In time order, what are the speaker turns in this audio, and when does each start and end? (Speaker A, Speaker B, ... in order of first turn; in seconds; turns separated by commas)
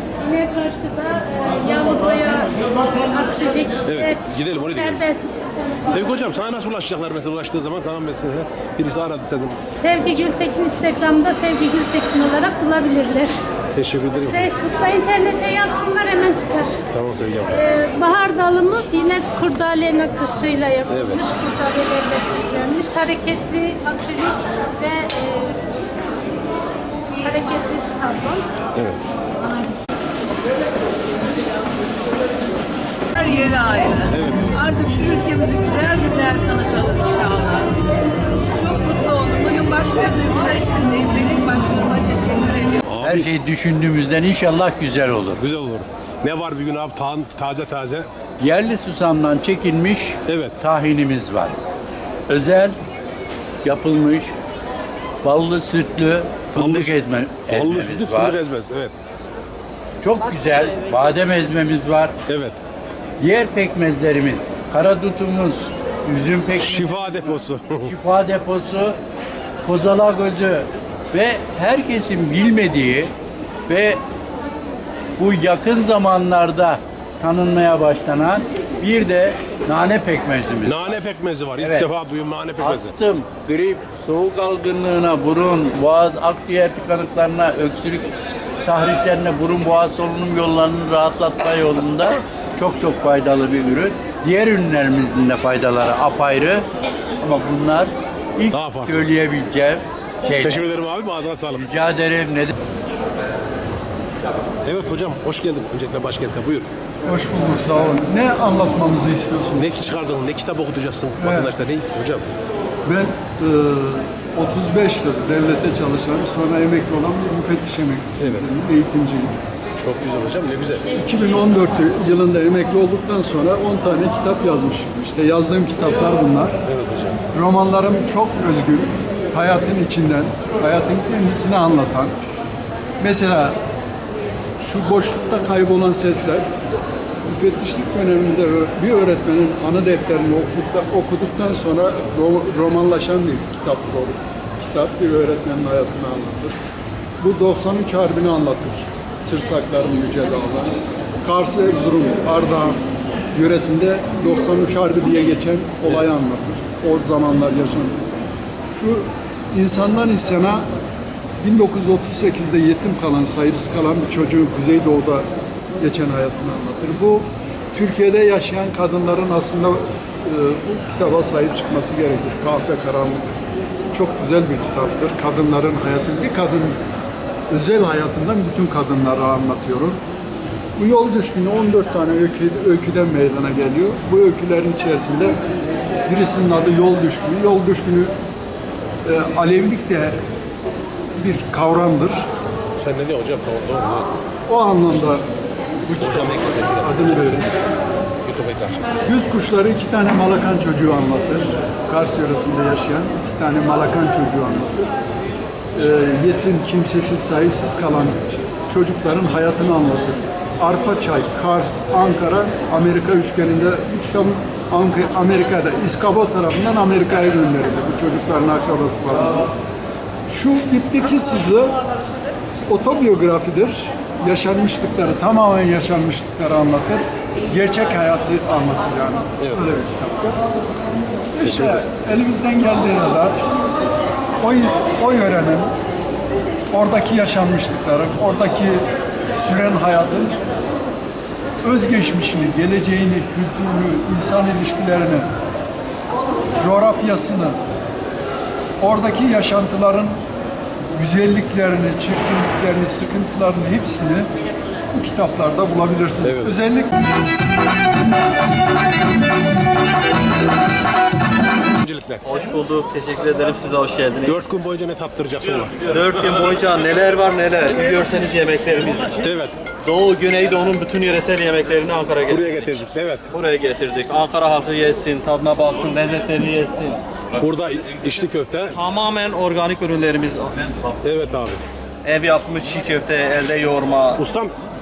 Speaker A: 0.2-6.1, Speaker B: 3.9-5.0, Speaker B: 5.9-9.6, Speaker A: 9.5-13.4, Speaker B: 13.7-14.5, Speaker A: 14.1-16.8, Speaker B: 16.9-17.6, Speaker A: 17.5-25.6, Speaker B: 20.9-21.2, Speaker A: 27.2-28.4, Speaker B: 28.7-29.0, Speaker C: 33.1-37.7, Speaker B: 34.1-34.5, Speaker C: 38.5-42.8, Speaker B: 42.9-43.3, Speaker D: 43.0-45.4, Speaker B: 45.4-48.1, Speaker D: 48.4-51.5, Speaker B: 50.3-50.5, Speaker D: 52.3-52.8, Speaker D: 53.6-54.3, Speaker D: 55.2-58.4, Speaker B: 56.5-58.9, Speaker D: 60.0-62.1, Speaker B: 62.3-62.5, Speaker D: 63.2-69.0, Speaker B: 66.6-67.9, Speaker D: 69.6-73.1, Speaker D: 73.7-74.0, Speaker D: 75.2-80.8, Speaker B: 80.6-82.9, Speaker D: 81.6-81.9, Speaker D: 82.6-88.1, Speaker D: 88.6-96.7, Speaker D: 97.2-100.7, Speaker B: 98.5-99.0, Speaker B: 100.4-101.7, Speaker D: 101.5-102.5, Speaker B: 104.6-106.7, Speaker E: 107.0-109.8, Speaker B: 109.6-112.3, Speaker E: 111.2-111.5, Speaker E: 112.8-119.3, Speaker B: 118.1-118.5, Speaker B: 119.8-120.9, Speaker E: 121.0-126.5, Speaker B: 126.6-127.2, Speaker E: 127.3-132.1, Speaker E: 133.0-133.6, Speaker E: 134.6-136.5, Speaker E: 137.2-146.5, Speaker E: 147.2-152.8, Speaker E: 153.3-158.1, Speaker E: 158.7-160.7, Speaker E: 161.4-165.3, Speaker E: 165.8-173.3, Speaker E: 173.9-176.8, Speaker E: 177.5-180.0, Speaker E: 180.8-185.4, Speaker E: 186.1-188.1, Speaker E: 189.0-190.2, Speaker E: 191.2-192.3, Speaker B: 192.8-194.1, Speaker E: 194.5-195.2, Speaker E: 195.9-197.5, Speaker B: 195.9-197.4, Speaker B: 198.2-198.8, Speaker E: 199.1-204.9, Speaker E: 205.7-208.2, Speaker E: 208.7-219.5, Speaker E: 220.3-221.8, Speaker E: 222.7-230.4, Speaker B: 229.4-229.8, Speaker E: 231.3-233.4, Speaker B: 231.4-231.8, Speaker E: 234.4-235.7, Speaker E: 236.7-240.4, Speaker E: 241.6-245.3, Speaker E: 246.6-247.6, Speaker E: 248.8-250.2, Speaker E: 250.9-254.3, Speaker E: 254.9-256.9, Speaker B: 256.2-256.6, Speaker B: 261.8-262.4, Speaker F: 262.2-264.5, Speaker B: 264.2-265.8, Speaker F: 265.8-269.3, Speaker B: 269.2-269.5, Speaker F: 269.8-272.8, Speaker B: 272.3-273.2, Speaker F: 273.3-277.0, Speaker B: 277.4-278.8, Speaker F: 278.7-280.8, Speaker B: 281.0-281.6, Speaker F: 282.0-284.2, Speaker B: 284.2-284.5